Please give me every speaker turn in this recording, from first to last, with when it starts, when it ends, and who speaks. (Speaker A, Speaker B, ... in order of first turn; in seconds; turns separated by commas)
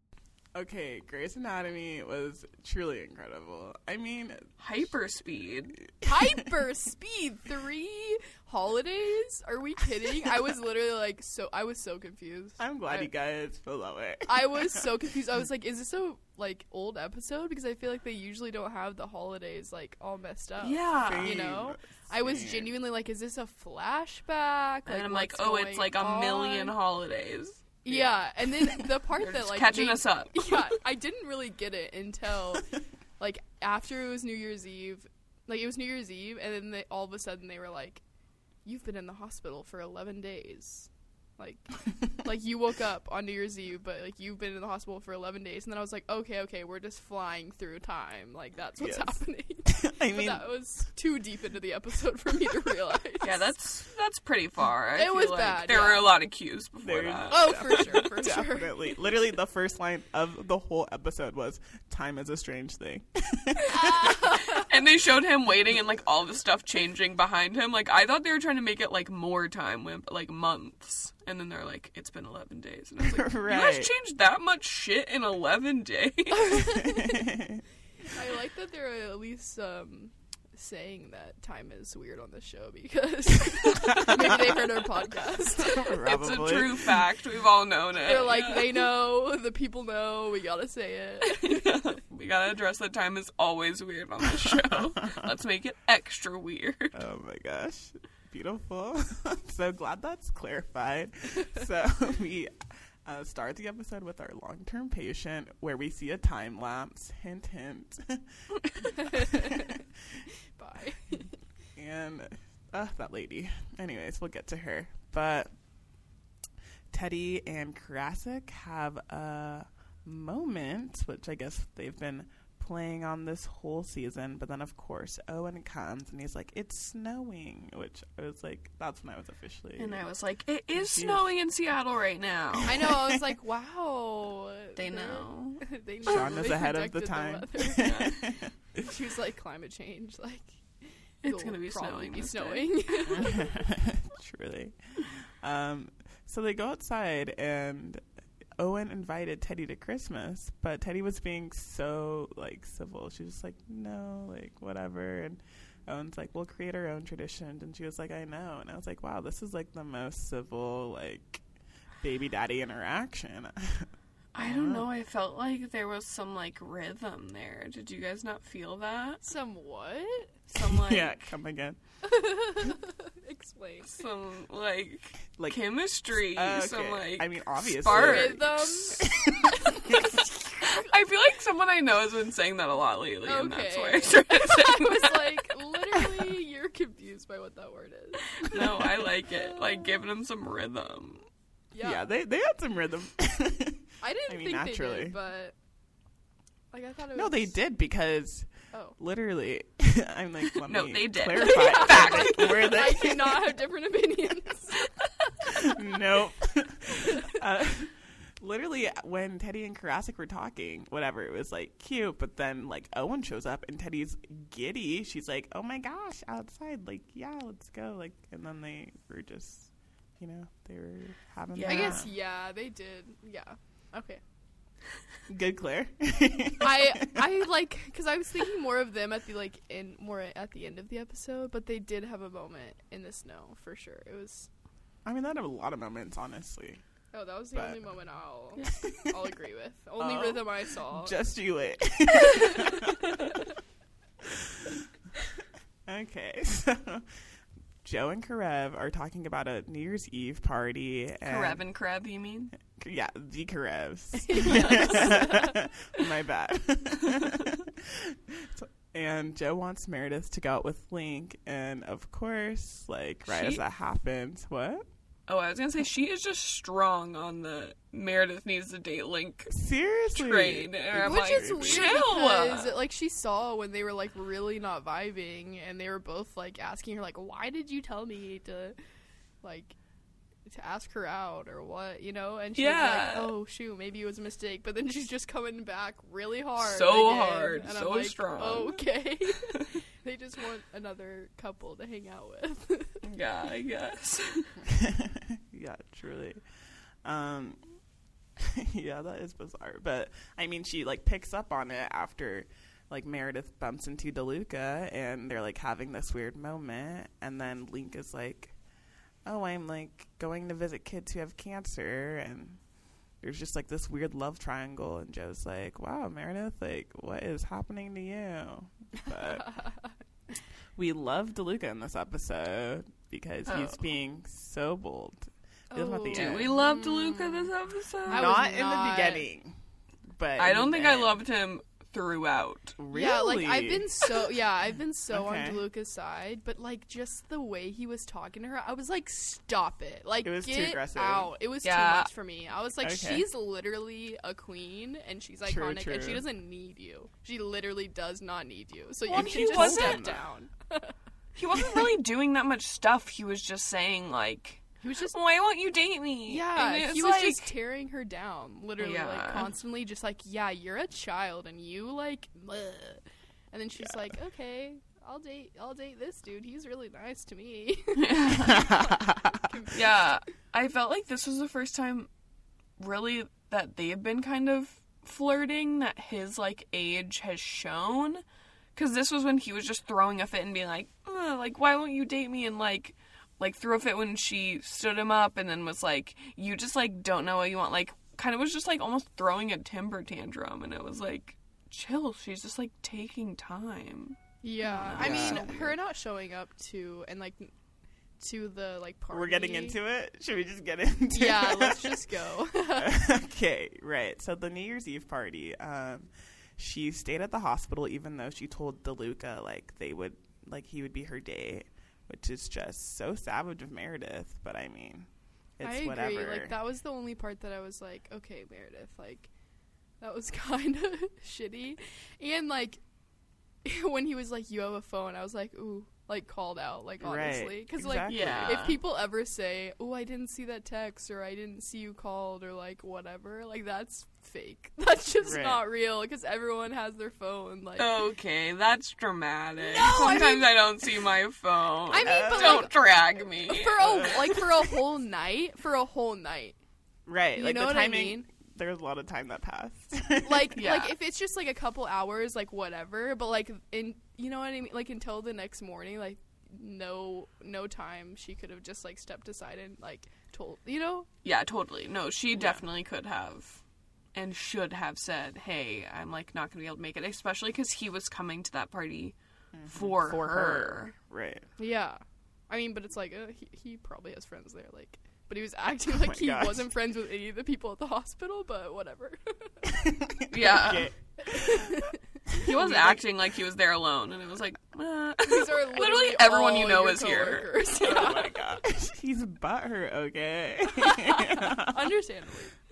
Speaker A: 0.5-4.5, Speaker B: 4.6-5.8, Speaker C: 6.0-13.1, Speaker A: 12.6-14.8, Speaker C: 14.3-26.8, Speaker B: 20.6-21.5, Speaker A: 21.0-22.7, Speaker B: 24.9-27.8, Speaker C: 27.8-38.0, Speaker A: 27.9-28.2, Speaker B: 29.1-30.7, Speaker C: 38.6-53.5, Speaker A: 48.8-50.4, Speaker B: 53.2-57.9, Speaker C: 54.9-56.1, Speaker A: 56.8-64.3, Speaker C: 57.3-59.0, Speaker C: 63.7-64.7, Speaker B: 64.4-76.8, Speaker A: 73.0-73.9, Speaker C: 76.4-77.2, Speaker A: 77.0-77.6, Speaker C: 78.0-85.9, Speaker B: 83.7-84.1, Speaker A: 85.7-87.0, Speaker B: 85.8-88.7, Speaker C: 88.0-91.6, Speaker B: 91.2-97.0, Speaker A: 96.9-108.5, Speaker C: 109.0-109.7, Speaker C: 110.5-111.4, Speaker A: 111.7-115.7, Speaker A: 116.9-130.0, Speaker B: 129.8-132.9, Speaker A: 130.7-131.2, Speaker C: 132.7-143.5, Speaker B: 134.8-136.3, Speaker A: 136.1-138.7, Speaker B: 137.8-138.4, Speaker B: 141.2-143.3, Speaker A: 143.1-148.0, Speaker A: 148.6-161.4, Speaker A: 162.0-164.8, Speaker B: 164.3-169.2, Speaker C: 169.2-170.4, Speaker B: 170.5-171.3, Speaker A: 170.6-171.8, Speaker C: 172.0-174.0, Speaker B: 173.9-178.9, Speaker A: 175.3-180.0, Speaker C: 177.9-180.8, Speaker B: 179.9-185.5, Speaker C: 183.2-189.7, Speaker B: 188.4-191.2, Speaker C: 191.7-192.1, Speaker A: 191.8-195.2, Speaker C: 194.0-195.5, Speaker C: 196.7-197.6, Speaker A: 197.1-203.4, Speaker C: 198.7-198.9, Speaker B: 200.6-202.8, Speaker C: 201.4-204.9, Speaker A: 205.5-222.1, Speaker B: 221.5-222.0, Speaker C: 221.6-224.2, Speaker A: 225.3-227.2, Speaker C: 226.6-234.5, Speaker A: 235.0-237.8, Speaker C: 237.1-241.1, Speaker A: 240.0-243.0, Speaker A: 245.8-251.6, Speaker B: 251.2-252.5, Speaker A: 252.5-264.8, Speaker C: 254.3-255.2, Speaker B: 254.4-255.4, Speaker B: 263.2-263.6, Speaker B: 265.3-272.7, Speaker A: 269.5-272.0, Speaker C: 271.0-278.8, Speaker C: 279.4-279.8, Speaker C: 280.4-293.1, Speaker B: 282.6-283.3, Speaker B: 286.6-288.9, Speaker B: 293.0-294.5, Speaker A: 294.7-297.8, Speaker A: 298.4-308.6, Speaker A: 309.2-319.6, Speaker C: 319.5-319.9, Speaker A: 320.7-326.6, Speaker B: 323.4-323.8, Speaker C: 325.7-327.4, Speaker B: 326.1-328.3, Speaker C: 328.1-329.2, Speaker A: 328.1-331.2, Speaker B: 330.4-332.8, Speaker A: 332.8-333.9, Speaker C: 332.9-350.9, Speaker A: 335.1-335.6, Speaker A: 340.2-341.3, Speaker B: 341.6-342.1, Speaker A: 342.8-343.2, Speaker A: 345.4-346.2, Speaker B: 349.1-350.1, Speaker A: 349.1-350.2, Speaker B: 351.4-357.5, Speaker C: 354.8-355.2, Speaker C: 356.3-370.1, Speaker B: 358.8-359.5, Speaker B: 368.0-368.7, Speaker A: 368.5-369.4, Speaker B: 369.7-372.1, Speaker B: 372.8-378.2, Speaker B: 378.7-395.8, Speaker C: 394.4-397.5, Speaker A: 394.9-395.5, Speaker C: 398.2-399.8, Speaker A: 399.1-402.0, Speaker C: 401.1-403.0, Speaker A: 402.8-416.5, Speaker C: 415.6-419.4, Speaker C: 420.0-422.9, Speaker C: 423.6-438.1, Speaker A: 427.0-428.6, Speaker B: 428.1-428.8, Speaker A: 435.2-435.6, Speaker B: 437.8-444.1, Speaker C: 439.6-440.6, Speaker C: 441.9-442.8, Speaker A: 442.0-442.7, Speaker C: 443.5-446.6, Speaker A: 443.9-444.1, Speaker A: 447.1-450.6, Speaker C: 447.3-448.3, Speaker C: 450.2-461.1, Speaker B: 450.6-450.9, Speaker B: 461.2-463.6, Speaker A: 462.3-462.6, Speaker B: 464.1-470.9, Speaker A: 469.5-471.5, Speaker C: 471.6-479.7, Speaker A: 475.9-476.7, Speaker A: 479.8-481.8, Speaker B: 480.3-481.2, Speaker C: 481.3-483.0, Speaker B: 482.4-488.4, Speaker C: 485.2-488.2, Speaker A: 487.8-491.9, Speaker C: 490.8-492.6